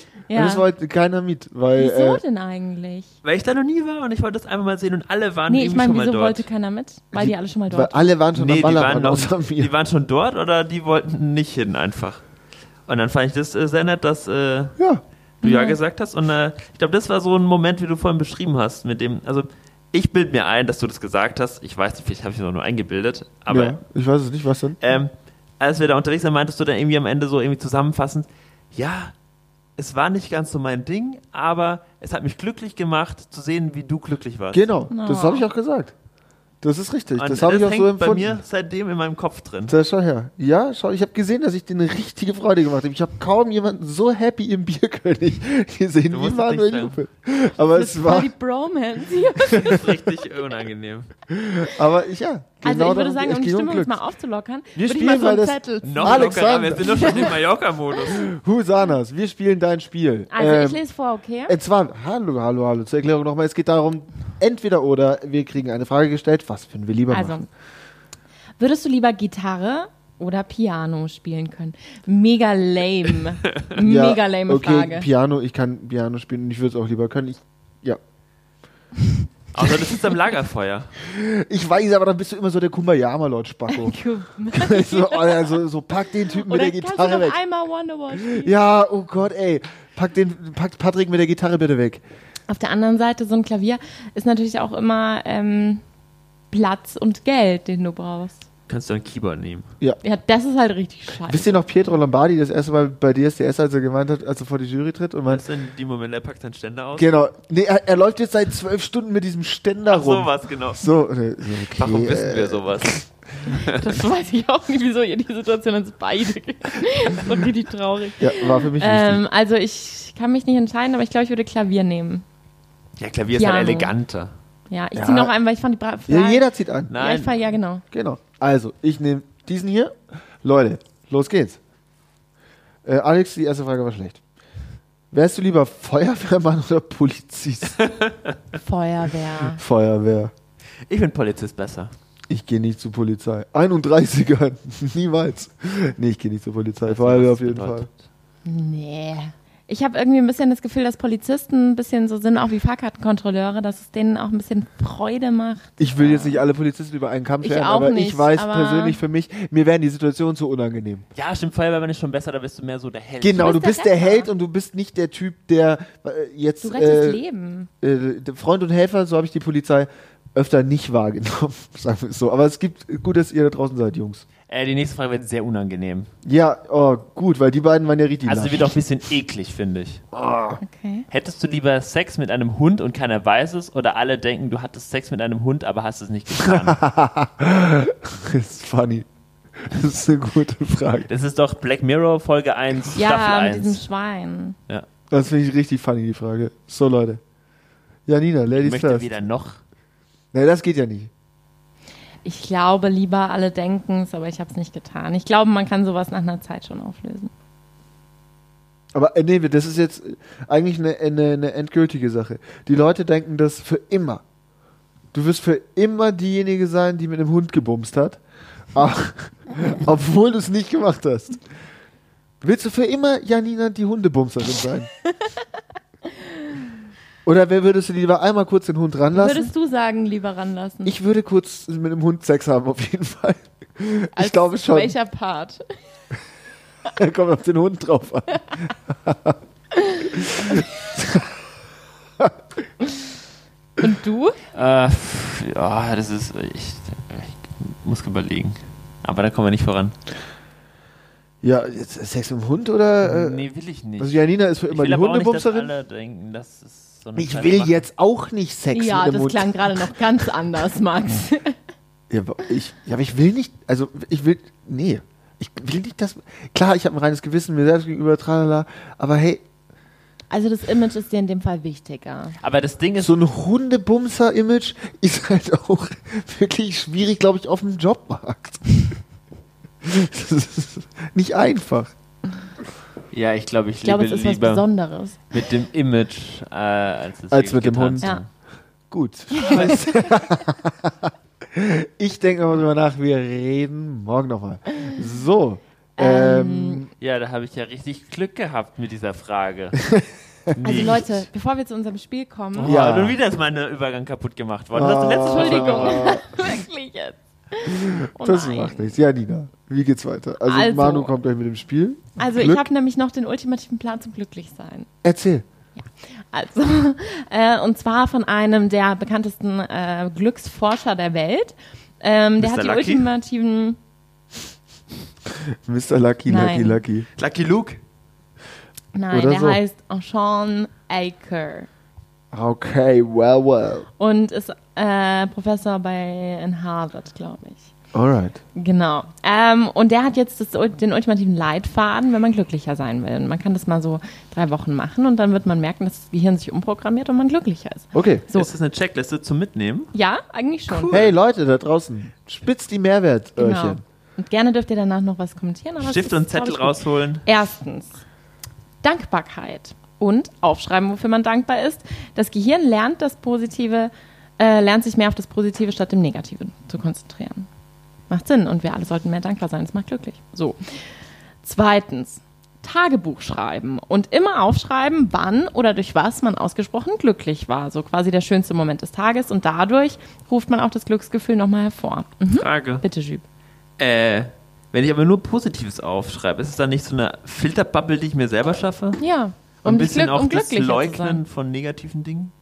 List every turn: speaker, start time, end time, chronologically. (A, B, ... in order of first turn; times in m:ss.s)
0:00.3-0:00.7 A
0:00.3-0:02.2 B
0:01.8-0:03.1 A
0:03.2-0:06.5 C
0:05.5-0:08.2 A
0:07.1-0:09.7 B
0:08.4-0:12.2 C
0:12.9-0:14.7 C
0:14.8-0:15.0 B
0:15.4-0:15.8 A
0:15.4-0:23.8 C
0:23.5-0:24.8 B
0:24.8-0:29.2 C
0:29.8-0:34.6 C
0:34.5-0:35.9 B
0:34.9-0:35.5 A
0:36.6-0:38.4 B
0:37.2-0:39.7 C
0:39.7-0:48.3 B
0:46.1-0:47.0 C
0:47.7-0:50.2 A
0:49.5-0:51.1 C
0:49.5-0:49.8 B
0:51.3-0:54.0 B
0:52.6-0:57.4 A
0:54.8-0:57.4 B
0:55.8-0:58.2 C
0:58.0-1:00.8 B
1:00.3-1:01.6 A
1:01.5-1:07.4 B
1:07.1-1:07.5 A
1:08.6-1:15.1 A
1:13.8-1:18.0 B
1:19.5-1:20.9 C
1:21.0-1:24.0 B
1:23.7-1:25.6 A
1:24.5-1:27.4 B
1:26.2-1:28.5 A
1:28.1-1:32.0 B
1:32.5-1:35.8 A
1:36.5-1:38.5 A
1:38.7-1:39.7 C
1:40.0-1:41.7 A
1:41.3-1:45.4 B
1:45.3-1:47.1 C
1:47.0-1:53.0 B
1:49.9-1:50.8 C
1:51.7-1:54.0 C
1:53.5-2:02.2 A
1:58.2-1:59.2 B
2:03.0-2:04.3 C
2:03.4-2:03.9 A
2:04.7-2:07.8 A
2:05.0-2:05.3 B
2:06.1-2:07.0 B
2:06.9-2:07.4 C
2:07.9-2:11.6 B
2:12.8-2:14.2 B
2:15.1-2:17.8 B
2:17.8-2:18.4 C
2:18.6-2:19.6 A
2:19.5-2:20.3 B
2:20.9-2:21.9 C
2:22.3-2:27.9 B
2:26.8-2:27.9 C
2:28.4-2:36.4 A
2:35.8-2:41.0 B
2:37.4-2:39.0 A
2:41.2-2:43.6 C
2:43.2-2:47.2 B
2:43.3-2:44.3 A
2:46.6-2:47.7 A
2:47.8-2:54.2 B
2:54.5-2:56.1 C
2:56.2-2:58.7 B
2:58.3-3:00.0 C
3:00.1-3:00.6 B
3:00.6-3:01.1 A
3:01.1-3:06.8 C
3:06.4-3:09.1 B
3:09.6-3:11.1 B
3:11.1-3:13.8 C
3:12.9-3:14.6 A
3:15.1-3:17.2 B
3:18.1-3:19.1 B
3:18.5-3:19.6 C
3:20.3-3:21.1 B
3:22.2-3:27.3 A
3:29.0-3:34.2 B
3:35.1-3:38.2 B
3:38.7-3:41.4 B
3:42.4-3:44.9 B
3:47.2-3:49.5 B
3:49.2-3:50.9 A
3:50.8-3:54.9 B
3:54.2-3:55.7 A
3:56.9-3:59.4 B
4:00.0-4:01.3 B
4:03.8-4:04.4 A
4:04.5-4:10.0 C
4:11.4-4:13.4 B
4:13.0-4:17.8 C
4:14.0-4:15.7 B
4:17.2-4:19.9 B
4:18.7-4:21.6 A
4:22.1-4:29.4 B
4:30.3-4:32.4 A
4:32.4-4:33.2 C
4:33.0-4:38.9 B
4:39.8-4:41.9 B
4:43.1-4:44.7 C
4:43.8-4:45.3 A
4:45.3-4:48.3 C
4:47.3-4:48.1 B
4:48.9-4:56.9 B
4:49.4-4:49.7 A
4:49.5-4:49.9 C
4:56.0-4:56.8 A
4:57.0-4:59.8 C
4:59.8-5:00.6 B
5:00.5-5:01.3 C
5:00.6-5:02.8 A
5:02.6-5:06.1 C
5:02.6-5:03.2 B
5:04.7-5:06.3 B
5:05.3-5:08.9 A
5:07.7-5:12.7 B
5:10.4-5:11.2 A
5:12.2-5:14.9 A
5:15.0-5:15.4 B
5:15.8-5:23.8 A
5:22.4-5:23.1 C
5:25.6-5:27.1 B
5:26.3-5:26.8 A
5:27.2-5:27.8 C
5:28.9-5:31.7 A
5:29.1-5:29.6 B
5:32.3-5:33.9 B
5:34.0-5:37.7 A
5:37.9-5:38.4 B
5:38.6-5:48.5 A
5:47.9-5:48.2 B
5:48.3-5:49.9 C
5:49.9-5:51.0 A
5:50.7-5:51.2 C
5:50.9-5:53.8 B
5:53.4-5:58.0 A
5:55.8-5:57.3 C
5:58.8-6:07.5 A
6:08.1-6:10.9 A
6:11.4-6:23.2 A
6:22.3-6:22.8 C
6:23.8-6:29.0 C
6:29.0-6:31.2 A
6:29.6-6:32.3 C